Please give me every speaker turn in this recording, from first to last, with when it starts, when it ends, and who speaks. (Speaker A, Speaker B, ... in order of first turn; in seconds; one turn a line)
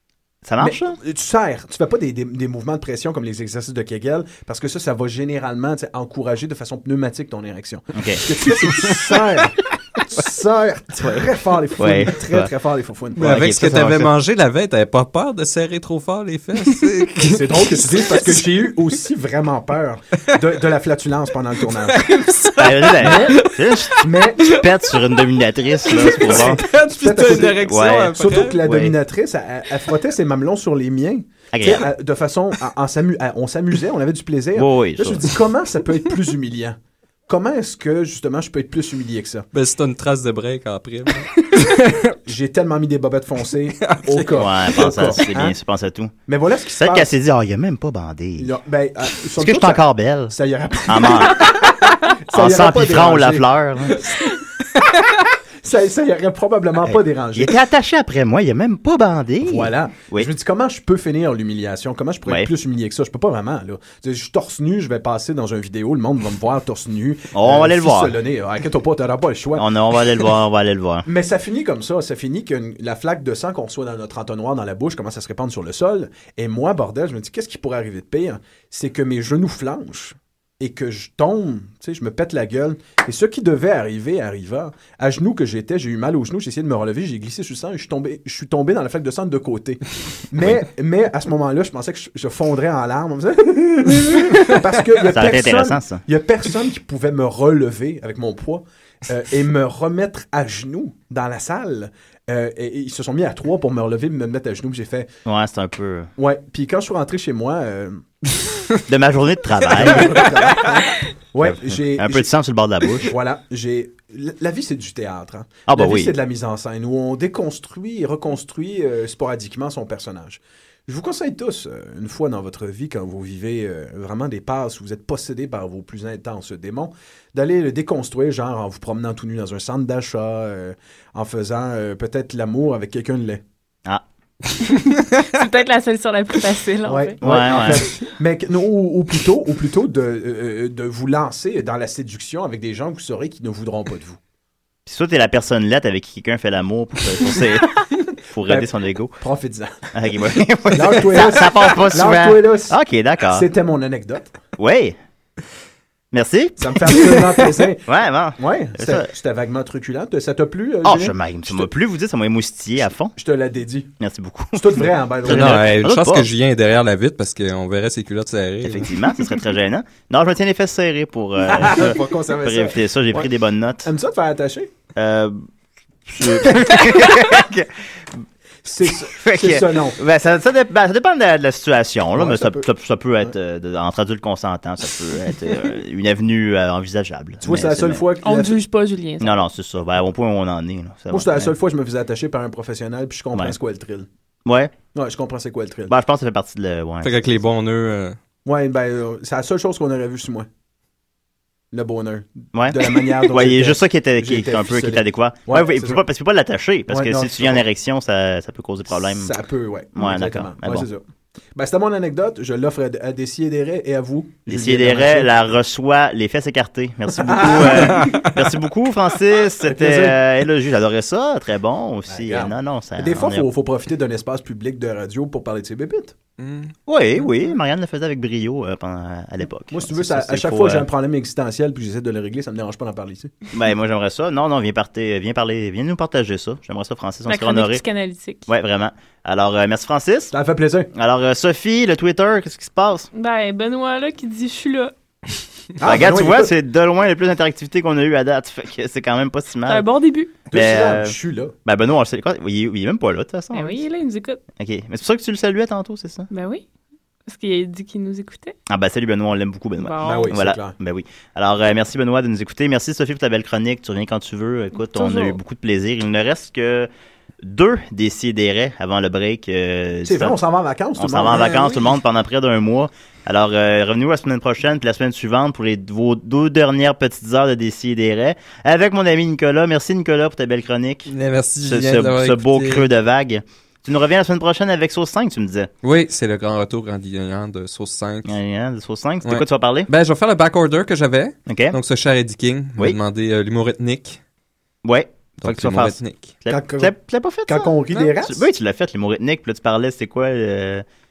Speaker A: 0.5-1.0
Speaker B: 0.6-13.4
Speaker A: 7.9-8.2
Speaker A: 11.8-12.5
Speaker C: 13.2-18.4
Speaker A: 13.2-14.1
Speaker B: 17.3-22.2
Speaker C: 21.8-24.6
Speaker A: 22.6-26.6
Speaker B: 23.0-24.6
Speaker C: 25.8-28.6
Speaker B: 26.1-39.5
Speaker A: 27.7-28.9
Speaker A: 31.5-31.9
Speaker A: 34.6-35.3
Speaker C: 39.5-42.2
Speaker B: 42.3-45.5
Speaker C: 43.8-44.3
Speaker A: 44.4-46.1
Speaker B: 46.3-47.1
Speaker A: 46.8-48.6
Speaker B: 48.4-57.6
Speaker A: 49.4-50.3
Speaker A: 50.9-51.6
Speaker A: 52.3-54.1
Speaker A: 56.8-60.3
Speaker B: 59.4-69.7
Speaker A: 67.3-68.2
Speaker A: 69.5-71.1
Speaker B: 71.1-105.1
Speaker A: 95.1-96.0
Speaker A: 105.3-106.1
Speaker B: 106.2-108.0
Speaker A: 108.9-110.3
Speaker B: 109.8-112.3
Speaker A: 111.4-113.1
Speaker B: 113.0-133.4
Speaker A: 115.7-116.1
Speaker D: 134.6-137.7
Speaker B: 136.9-144.2
Speaker A: 137.2-137.9
Speaker A: 144.9-147.8
Speaker A: 148.3-149.2
Speaker B: 149.2-149.7
Speaker A: 149.9-153.5
Speaker B: 150.7-152.8
Speaker B: 153.3-154.3
Speaker A: 154.6-155.0
Speaker A: 156.1-159.1
Speaker B: 156.6-157.8
Speaker B: 158.4-161.7
Speaker A: 160.8-163.2
Speaker B: 163.2-163.9
Speaker A: 164.0-166.3
Speaker B: 164.6-165.8
Speaker C: 165.2-168.9
Speaker A: 168.6-173.9
Speaker B: 171.4-173.3
Speaker B: 173.8-174.7
Speaker A: 175.0-175.4
Speaker A: 176.1-178.2
Speaker B: 178.7-180.0
Speaker A: 178.9-188.0
Speaker B: 182.2-182.7
Speaker B: 187.4-188.6
Speaker D: 188.2-189.4
Speaker A: 189.2-191.5
Speaker B: 191.1-194.1
Speaker A: 194.5-194.7
Speaker B: 194.9-195.9
Speaker A: 195.9-197.3
Speaker C: 197.0-198.2
Speaker B: 198.4-200.5
Speaker B: 201.7-206.0
Speaker A: 202.5-209.3
Speaker B: 206.9-207.7
Speaker B: 209.1-211.0
Speaker A: 210.0-210.9
Speaker B: 211.6-215.4
Speaker A: 214.5-223.5
Speaker B: 217.2-218.3
Speaker C: 218.0-218.3
Speaker B: 219.7-220.2
Speaker B: 222.1-226.2
Speaker C: 226.4-226.7
Speaker A: 226.9-230.9
Speaker B: 229.7-233.3
Speaker A: 233.5-237.8
Speaker D: 237.3-238.4
Speaker A: 238.5-240.3
Speaker B: 240.3-240.9
Speaker A: 240.9-243.1
Speaker D: 243.1-244.9
Speaker B: 245.8-246.5
Speaker A: 245.8-249.9
Speaker D: 249.7-250.3
Speaker B: 250.5-251.5
Speaker A: 250.5-253.8
Speaker D: 253.5-254.4
Speaker A: 254.6-256.3
Speaker D: 256.3-256.6
Speaker D: 257.3-258.6
Speaker A: 258.7-266.9
Speaker D: 259.8-260.3
Speaker B: 260.0-260.8
Speaker D: 264.8-265.4
Speaker A: 267.4-270.4
Speaker B: 270.1-271.9
Speaker A: 271.0-281.1
Speaker C: 281.1-282.9
Speaker A: 281.7-285.7
Speaker C: 285.8-288.3
Speaker A: 288.3-289.9
Speaker C: 289.2-294.2
Speaker A: 291.5-291.8
Speaker A: 294.9-300.8
Speaker C: 295.4-296.4
Speaker B: 296.5-296.9
Speaker B: 297.5-298.4